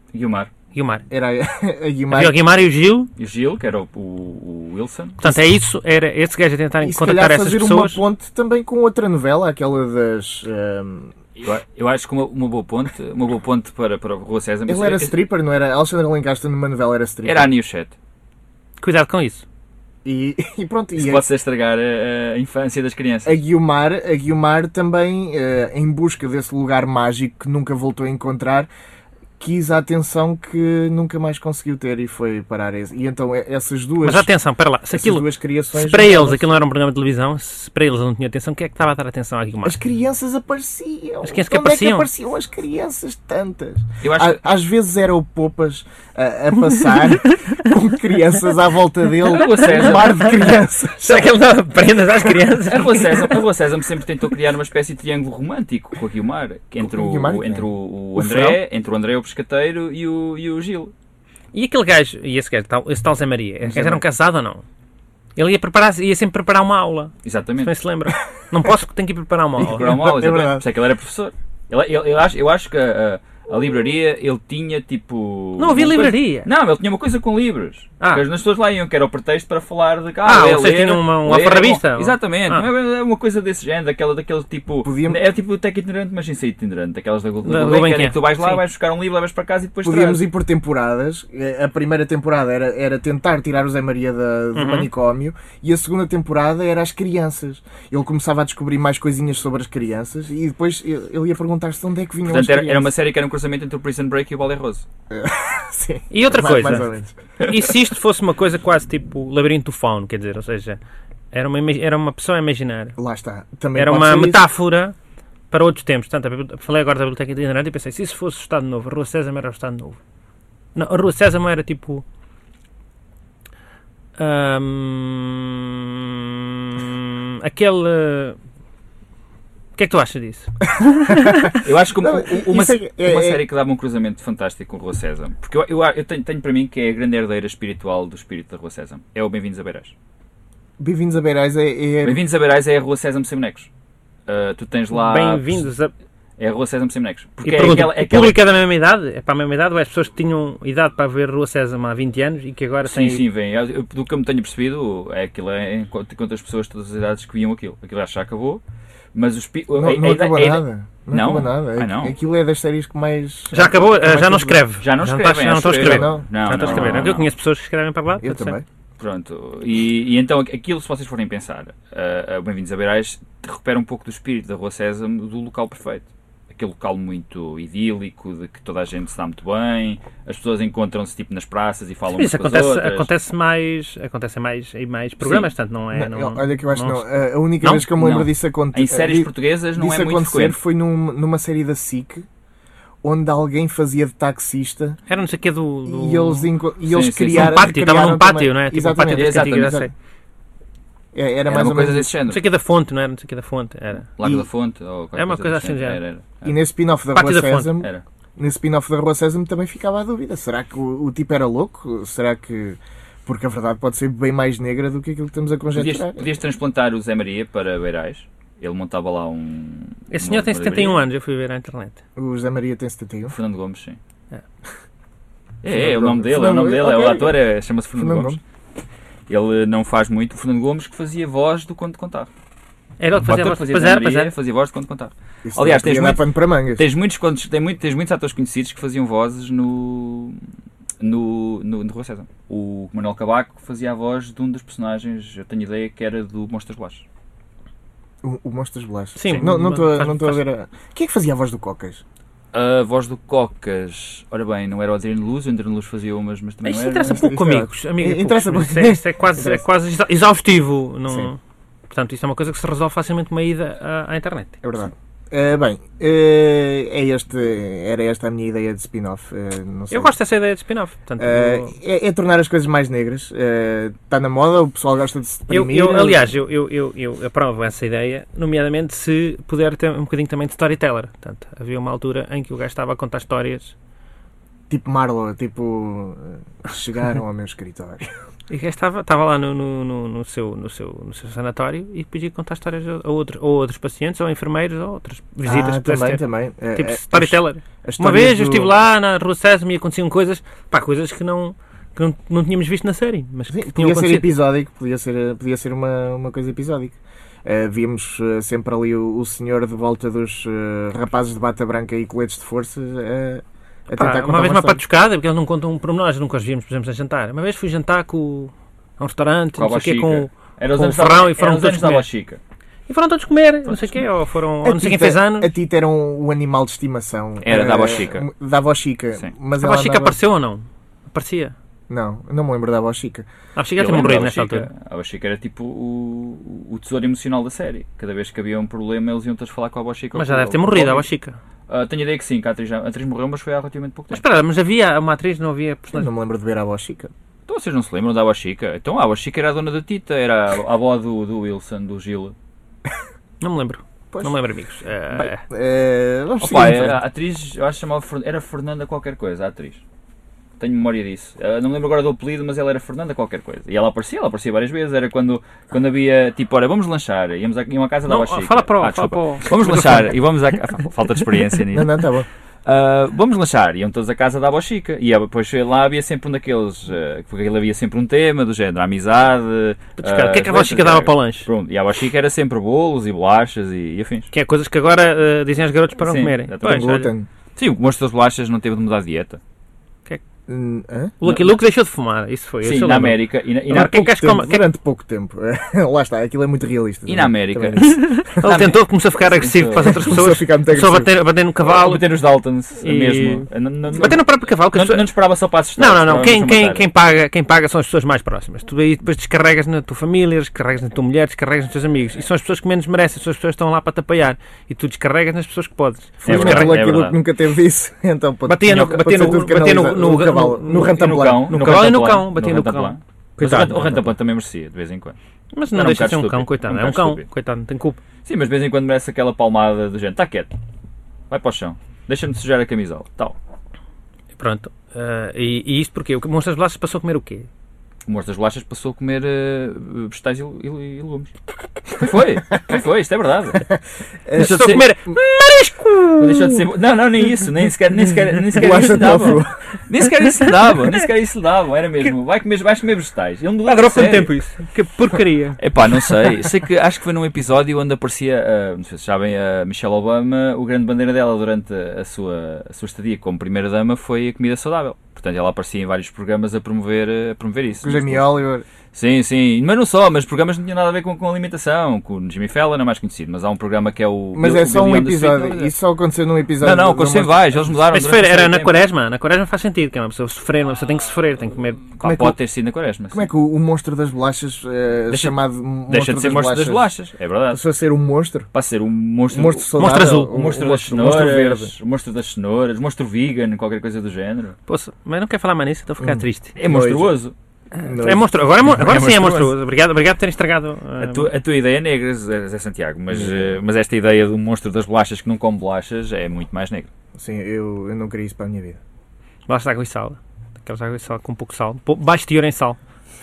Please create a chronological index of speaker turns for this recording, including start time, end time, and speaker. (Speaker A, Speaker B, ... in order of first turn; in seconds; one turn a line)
Speaker A: 0.1-0.5
Speaker B: 0.7-1.0
Speaker C: 1.1-2.4
Speaker B: 2.1-3.1
Speaker A: 3.2-5.2
Speaker B: 5.2-8.0
Speaker C: 6.8-11.1
Speaker A: 11.4-15.2
Speaker C: 14.7-17.5
Speaker A: 17.2-17.9
Speaker B: 18.8-19.4
Speaker C: 20.1-21.3
Speaker A: 21.0-23.4
Speaker C: 23.2-28.7
Speaker C: 29.4-34.3
Speaker B: 34.0-39.8
Speaker C: 34.9-36.5
Speaker C: 39.6-51.4
Speaker B: 41.2-42.1
Speaker A: 44.0-44.4
Speaker A: 49.2-50.6
Speaker B: 49.9-53.3
Speaker A: 52.7-60.9
Speaker C: 56.8-57.7
Speaker B: 58.2-58.5
Speaker B: 61.5-64.6
Speaker C: 63.6-64.0
Speaker B: 65.4-69.9
Speaker A: 67.2-67.7
Speaker C: 69.6-70.7
Speaker A: 69.6-90.2
Speaker B: 75.6-76.5
Speaker B: 80.2-82.7
Speaker C: 84.8-85.2
Speaker B: 87.4-88.6
Speaker C: 89.8-102.9
Speaker B: 94.5-94.9
Speaker A: 102.2-104.8
Speaker C: 105.1-107.2
Speaker B: 106.1-106.9
Speaker B: 107.4-110.8
Speaker B: 111.3-113.0
Speaker C: 113.0-114.5
Speaker B: 113.8-115.0
Speaker B: 115.5-120.0
Speaker B: 120.8-122.0
Speaker B: 124.2-128.4
Speaker B: 129.8-131.4
Speaker C: 131.0-133.4
Speaker A: 131.5-139.9
Speaker C: 140.8-142.2
Speaker A: 142.0-143.7
Speaker A: 144.3-145.7
Speaker B: 144.9-145.9
Speaker A: 146.4-148.4
Speaker B: 147.4-153.2
Speaker A: 152.9-158.6
Speaker A: 159.1-162.1
Speaker C: 159.7-164.6
Speaker B: 163.5-168.6
Speaker A: 164.8-167.3
Speaker C: 165.7-167.1
Speaker C: 168.2-168.6
Speaker A: 169.0-183.1
Speaker B: 182.1-187.1
Speaker A: 185.2-185.5
Speaker C: 185.9-192.3
Speaker A: 187.6-190.6
Speaker C: 193.0-195.0
Speaker B: 195.1-196.5
Speaker C: 195.9-199.9
Speaker A: 196.9-197.7
Speaker B: 197.3-199.9
Speaker A: 199.1-199.8
Speaker C: 201.1-202.1
Speaker A: 201.5-202.4
Speaker B: 202.3-204.1
Speaker A: 204.2-206.6
Speaker C: 204.2-204.5
Speaker B: 205.2-206.0
Speaker C: 206.4-216.3
Speaker B: 207.1-207.7
Speaker A: 215.7-221.1
Speaker B: 220.1-222.0
Speaker C: 222.2-223.4
Speaker A: 223.3-224.0
Speaker A: 225.6-228.4
Speaker C: 225.7-227.4
Speaker C: 228.0-228.4
Speaker A: 229.3-232.3
Speaker B: 233.0-234.3
Speaker A: 233.3-236.2
Speaker C: 235.5-236.8
Speaker A: 236.7-240.4
Speaker A: 241.0-247.1
Speaker C: 248.2-252.0
Speaker B: 249.2-250.4
Speaker A: 252.5-257.2
Speaker B: 256.6-261.4
Speaker C: 257.0-259.6
Speaker B: 261.9-264.6
Speaker C: 264.6-270.1
Speaker B: 269.9-271.8
Speaker C: 271.2-276.2
Speaker B: 275.5-283.8
Speaker C: 284.7-288.1
Speaker B: 288.5-296.2
Speaker C: 295.4-298.7
Speaker B: 296.7-304.3
Speaker C: 303.5-314.8
Speaker B: 313.9-322.1
Speaker A: 319.6-322.4
Speaker B: 322.9-325.5
Speaker C: 324.6-330.2
Speaker A: 327.4-328.3
Speaker B: 329.6-331.6
Speaker C: 331.9-333.3
Speaker B: 333.6-334.7
Speaker A: 333.8-341.1
Speaker B: 340.1-341.4
Speaker A: 341.7-344.2
Speaker B: 344.1-346.1
Speaker C: 345.9-347.1
Speaker A: 347.5-352.4
Speaker B: 353.4-355.4
Speaker C: 355.1-357.0
Speaker A: 356.4-359.8
Speaker A: 360.6-372.0
Speaker B: 368.1-370.1
Speaker C: 371.7-372.3
Speaker A: 372.6-384.3
Speaker B: 380.0-381.5
Speaker B: 384.3-387.1
Speaker A: 386.0-387.0
Speaker C: 386.6-387.3
Speaker A: 387.6-389.4
Speaker C: 390.5-391.1
Speaker B: 391.2-394.7
Speaker A: 391.2-391.5
Speaker A: 392.6-394.0
Speaker C: 393.7-398.4
Speaker A: 397.1-400.1
Speaker B: 397.8-402.1
Speaker C: 399.9-401.1
Speaker A: 401.6-406.9
Speaker B: 402.8-405.1
Speaker B: 405.8-416.9
Speaker C: 416.2-421.6
Speaker A: 416.2-417.2
Speaker B: 418.5-424.1
Speaker A: 418.7-419.3
Speaker A: 420.8-425.2
Speaker B: 425.5-428.0
Speaker A: 425.7-427.3
Speaker A: 428.2-430.5
Speaker A: 431.3-433.4
Speaker B: 434.4-437.5
Speaker A: 438.1-441.3
Speaker A: 441.9-443.7
Speaker C: 444.3-445.1
Speaker B: 444.4-446.6
Speaker A: 444.4-444.9
Speaker A: 446.2-454.3
Speaker C: 448.5-449.6
Speaker B: 450.4-450.9
Speaker B: 453.7-455.6
Speaker A: 455.6-468.3
Speaker C: 467.8-468.7
Speaker A: 468.9-475.7
Speaker C: 474.4-477.5
Speaker A: 476.6-478.8
Speaker B: 477.9-481.9
Speaker A: 482.0-483.2
Speaker C: 482.0-482.4
Speaker C: 483.1-486.9
Speaker A: 485.1-485.4
Speaker A: 485.9-487.6
Speaker C: 487.5-488.5
Speaker A: 488.5-494.6
Speaker C: 489.3-491.7
Speaker B: 489.8-490.4
Speaker B: 494.7-496.6
Speaker C: 496.0-497.1
Speaker A: 496.6-497.3
Speaker C: 497.8-498.3
Speaker B: 497.9-501.3
Speaker A: 498.6-499.5
Speaker A: 501.0-506.9
Speaker C: 503.1-503.6
Speaker C: 507.2-508.8
Speaker B: 509.5-512.8